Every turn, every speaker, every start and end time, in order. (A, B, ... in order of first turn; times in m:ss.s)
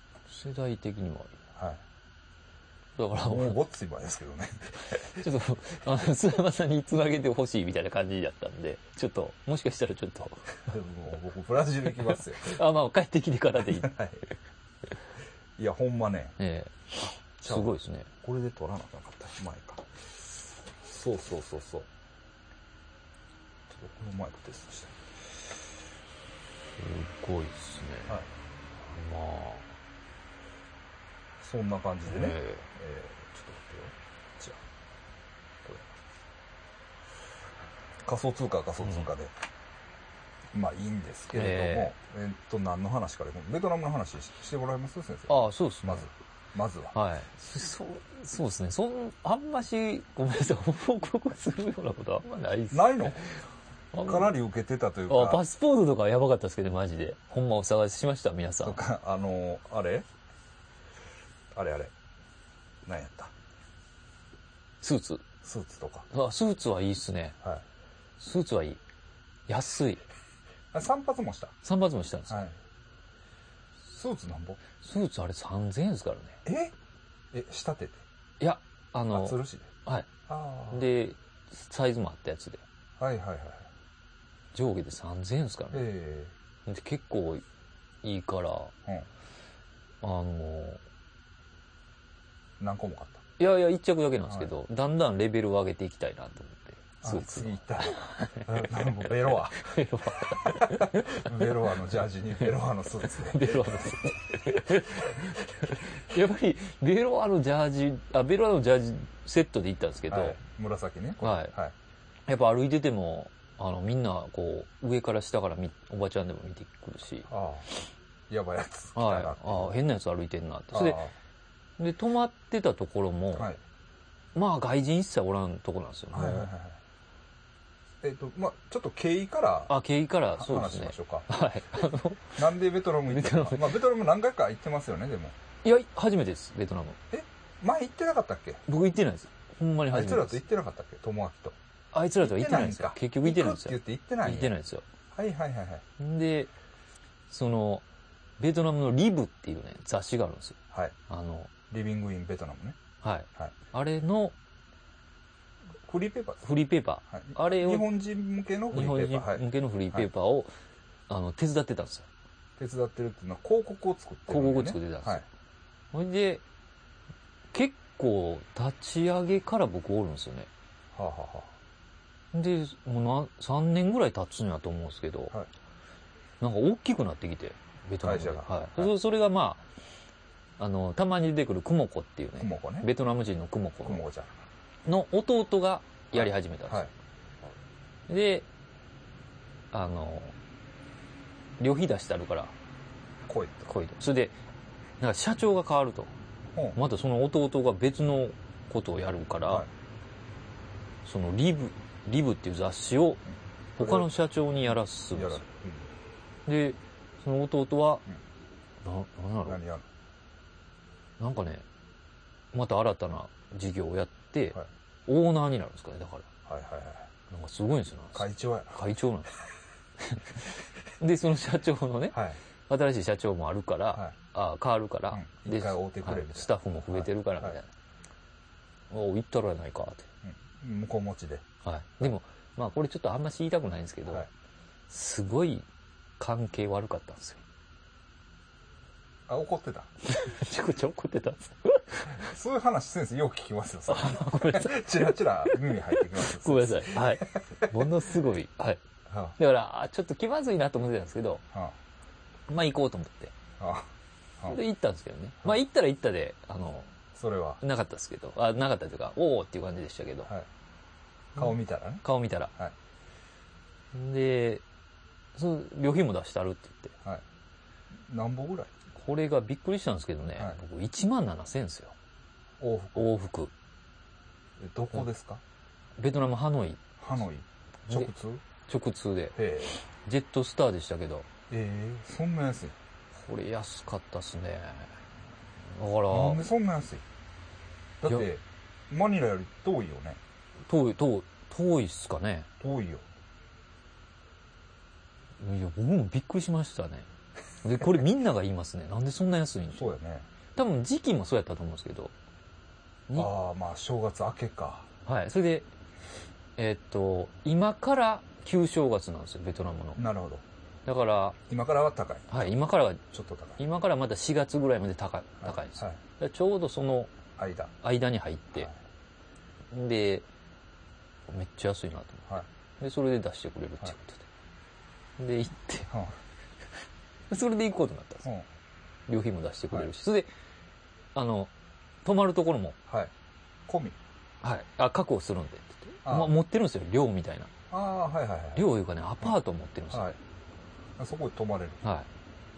0:00.3-0:01.4 A
0:01.6-0:01.8 B
0:03.0-0:03.6 A
0:03.2-0:04.8 B
0:04.9-0:10.6 A
0:10.7-0:12.6 B
0:12.0-0:13.9 A
0:13.7-0:14.2 B
0:15.6-0:16.4 B
0:16.4-0:18.1 A
0:17.4-0:20.1 B
0:20.7-0:21.9 B
0:23.7-0:25.0 B
0:26.8-0:28.2 A
0:28.8-0:29.7 A
0:31.4-0:34.6 B
0:32.1-0:32.7 A
0:35.6-0:35.9 B
0:38.0-0:39.3 B
0:38.8-0:39.1 A
0:40.5-0:47.0 B
0:41.3-0:41.9 A
0:45.3-0:46.1 A
0:46.9-0:53.4 A
0:52.7-0:53.2 B
0:53.9-0:54.3 A
0:54.0-0:55.4 B
0:55.1-0:58.8 A
0:58.6-1:00.1 B
1:01.5-1:01.9 B
1:02.8-1:03.3 B
1:04.8-1:05.2 A
1:05.4-1:06.1 B
1:06.1-1:07.4 A
1:08.2-1:08.8 A
1:09.5-1:10.0 A
1:10.7-1:11.6 B
1:11.6-1:12.4 A
1:12.3-1:12.6 B
1:13.9-1:14.6 B
1:14.8-1:16.4 A
1:16.4-1:16.7 B
1:17.3-1:18.0 B
1:18.4-1:20.1 A
1:19.1-1:19.7 B
1:20.3-1:20.8 B
1:20.7-1:22.6 A
1:23.0-1:23.7 B
1:24.5-1:25.9 A
1:25.7-1:26.3 B
1:26.7-1:27.4 A
1:28.0-1:28.7 A
1:30.0-1:30.8 A
1:32.6-1:33.2 B
1:33.4-1:41.7 A
1:37.0-1:44.1 B
1:43.0-1:50.4 A
1:50.1-1:51.8 B
1:51.2-1:51.5 A
1:52.3-1:57.3 A
1:57.3-1:57.7 B
1:58.3-1:59.8 B
1:59.0-2:01.0 A
2:00.7-2:01.1 B
2:01.8-2:03.5 A
2:03.4-2:03.6 B
2:04.4-2:06.5 A
2:06.1-2:06.8 B
2:08.0-2:09.7 B
2:09.7-2:12.4 A
2:10.4-2:11.3 B
2:12.4-2:15.4 B
2:13.1-2:13.8 A
2:15.6-2:17.0 A
2:17.1-2:18.6 B
2:18.7-2:20.4 A
2:19.9-2:21.6 B
2:21.9-2:24.9 A
2:22.2-2:24.5 B
2:25.1-2:25.8 B
2:26.0-2:26.5 A
2:27.3-2:27.8 A
2:28.4-2:31.5 A
2:31.7-2:32.8 B
2:33.0-2:34.4 A
2:35.8-2:36.5 B
2:36.4-2:37.9 A
2:37.1-2:40.1 B
2:38.7-2:40.5 A
2:41.1-2:42.1 A
2:42.6-2:45.2 B
2:44.3-2:45.2 A
2:45.9-2:46.4 A
2:47.5-2:50.5 A
2:50.9-2:51.5 B
2:52.3-2:55.3 A
2:56.4-2:59.6 A
2:58.0-2:58.9 B
3:00.6-3:04.1 A
3:02.4-3:02.9 B
3:03.8-3:04.4 B
3:04.9-3:06.9 A
3:06.1-3:06.9 B
3:08.1-3:08.5 A
3:09.7-3:10.4 A
3:11.6-3:12.5 A
3:13.2-3:13.7 B
3:13.7-3:14.4 A
3:15.0-3:16.1 A
3:16.8-3:19.7 A
3:21.0-3:23.2 A
3:23.8-3:24.1 B
3:23.8-3:25.4 A
3:25.1-3:25.9 B
3:26.5-3:28.0 A
3:28.8-3:29.6 A
3:29.5-3:29.9 B
3:31.2-3:31.6 A
3:32.5-3:36.3 A
3:36.5-3:37.1 B
3:37.3-3:39.3 A
3:38.2-3:38.8 B
3:40.0-3:40.4 A
3:41.0-3:47.7 A
3:42.1-3:42.4 B
3:45.1-3:47.6 B
3:48.9-3:50.1 A
3:50.2-3:51.5 B
3:51.6-3:54.3 A
3:54.9-3:55.7 A
3:56.2-3:57.4 A
3:59.3-3:59.9 B
4:00.0-4:02.3 A
4:02.2-4:07.9 B
4:03.9-4:08.8 A
4:09.1-4:09.4 B
4:09.4-4:11.4 A
4:12.5-4:13.3 A
4:13.6-4:14.6 B
4:14.5-4:16.9 A
4:17.2-4:17.6 B
4:17.6-4:20.3 A
4:21.4-4:22.0 B
4:21.4-4:22.5 A
4:23.9-4:24.6 A
4:25.4-4:27.0 A
4:28.0-4:28.7 B
4:28.9-4:32.0 A
4:32.6-4:33.1 B
4:33.0-4:33.5 A
4:34.6-4:35.4 B
4:36.0-4:36.9 A
4:37.0-4:38.4 B
4:38.7-4:39.4 A
4:39.4-4:39.8 B
4:40.0-4:41.3 A
4:41.5-4:42.8 B
4:43.2-4:44.9 A
4:45.7-4:46.5 A
4:46.1-4:47.0 B
4:48.0-4:50.2 B
4:50.7-4:52.5 A
4:52.6-4:53.0 B
4:55.4-4:57.1 A
4:57.6-4:59.9 A
4:59.7-5:00.3 B
5:00.6-5:02.1 A
5:03.2-5:04.9 B
5:05.1-5:05.7 A
5:06.6-5:10.0 A
5:10.0-5:10.4 B
5:10.9-5:11.4 A
5:11.5-5:12.5 B
5:12.3-5:13.0 A
5:13.1-5:13.6 B
5:13.6-5:17.1 A
5:15.4-5:16.0 B
5:17.4-5:17.7 B
5:17.8-5:18.7 A
5:19.7-5:20.3 A
5:21.3-5:24.3 A
5:25.2-5:25.9 A
5:25.9-5:26.2 B
5:27.3-5:28.3 A
5:29.1-5:30.3 A
5:31.2-5:31.5 A
5:32.0-5:32.8 A
5:33.7-5:34.0 B
5:34.4-5:37.5 A
5:36.0-5:36.4 B
5:37.7-5:38.7 B
5:38.6-5:40.1 A
5:39.9-5:40.2 B
5:41.0-5:41.8 B
5:41.8-5:42.1 A